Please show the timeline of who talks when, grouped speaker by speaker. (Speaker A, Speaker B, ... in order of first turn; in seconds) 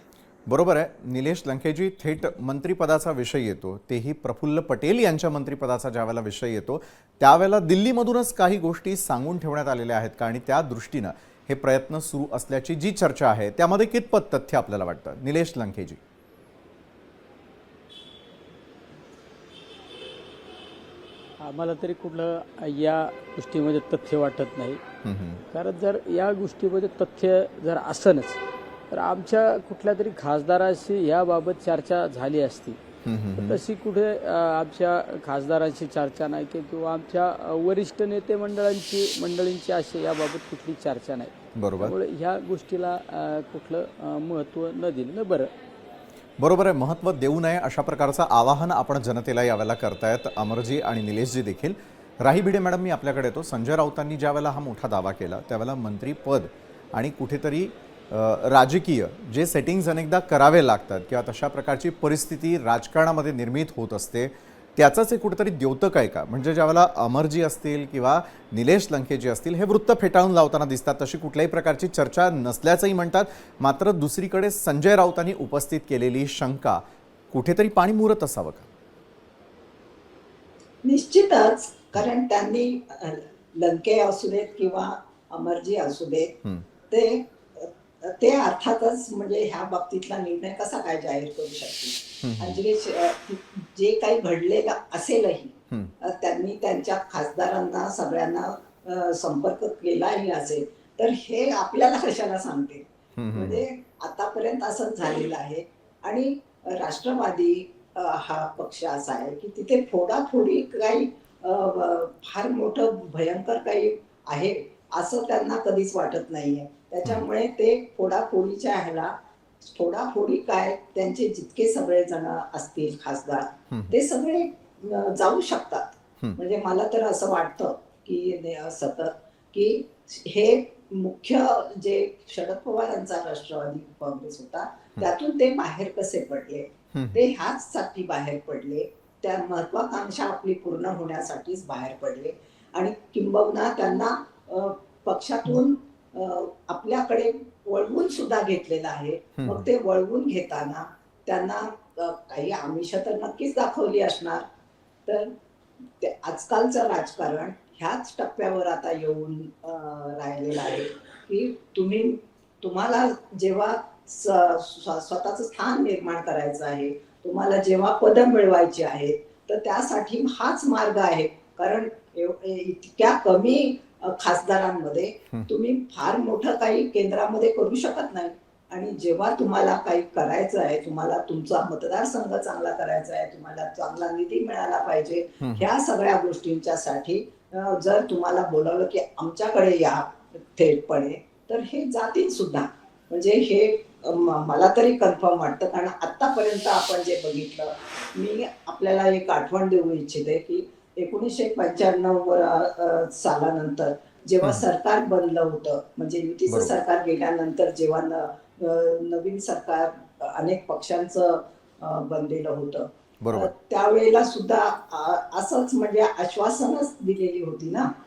Speaker A: 0.5-16.0, 25.0-25.4, 33.0-33.6, 41.5-41.9, 46.4-78.7, 92.2-92.6, 103.2-103.6, 136.9-137.2, 149.4-149.7, 185.4-185.7, 206.5-206.8, 213.2-213.5
Speaker B: 21.4-24.8, 25.5-28.4, 28.9-32.8, 33.4-45.5
Speaker C: 80.8-86.4, 86.9-154.4, 155.1-155.3, 156.0-217.9